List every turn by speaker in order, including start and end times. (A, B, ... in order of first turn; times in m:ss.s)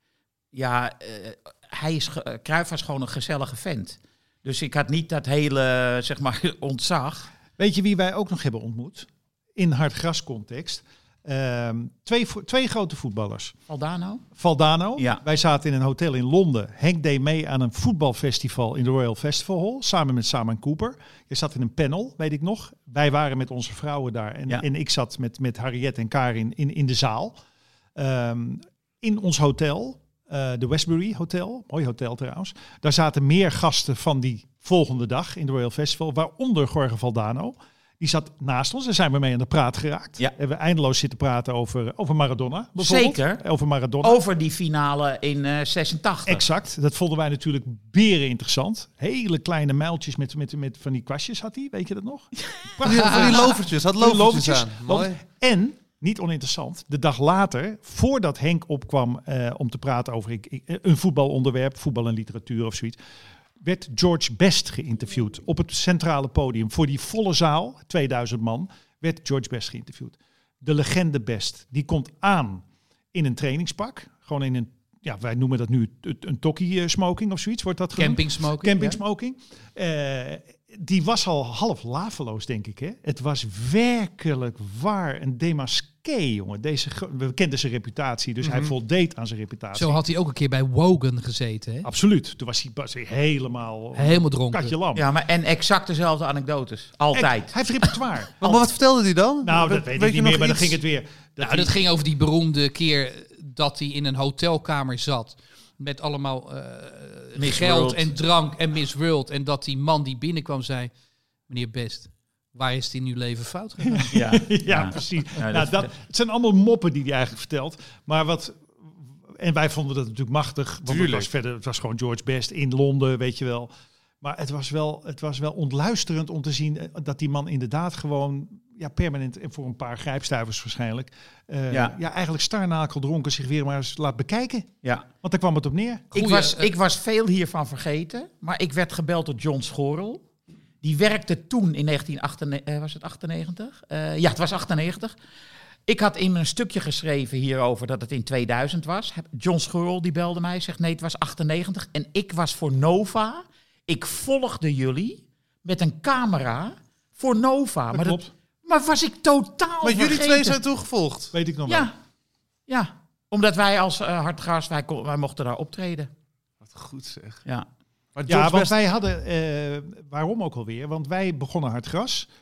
0:00.5-0:07.3 A
0:07.6-0:13.6 B
0:13.7-0:14.2 A
0:14.4-0:27.4 B
0:15.0-0:15.2 A
0:28.0-0:44.2 B
0:42.8-0:43.4 A
0:44.0-0:46.5 A
0:46.3-1:03.0 B
0:52.8-0:55.2 C
1:03.6-1:30.0 B
1:18.0-1:19.0 D
1:28.4-1:28.7 C
1:29.8-1:31.9 D
1:31.8-1:35.0 B
1:34.0-1:34.7 D
1:34.9-1:37.9 A
1:37.1-1:38.7 B
1:38.4-1:40.8 C
1:39.4-1:41.8 B
1:41.4-1:50.9 D
1:47.4-1:48.2 A
1:51.5-1:54.1 D
1:53.9-2:16.1 B
1:54.1-1:55.9 A
2:00.9-2:01.3 C
2:11.7-2:12.0 A
2:16.1-2:20.2 A
2:16.1-2:16.7 D
2:20.8-2:25.2 A
2:25.9-2:40.6 A
2:37.9-2:38.3 B
2:39.8-2:41.3 C
2:41.3-2:41.9 B
2:41.7-2:42.0 A
2:42.7-2:46.1 A
2:46.6-2:47.4 C
2:48.2-2:48.7 C
2:48.3-2:52.3 B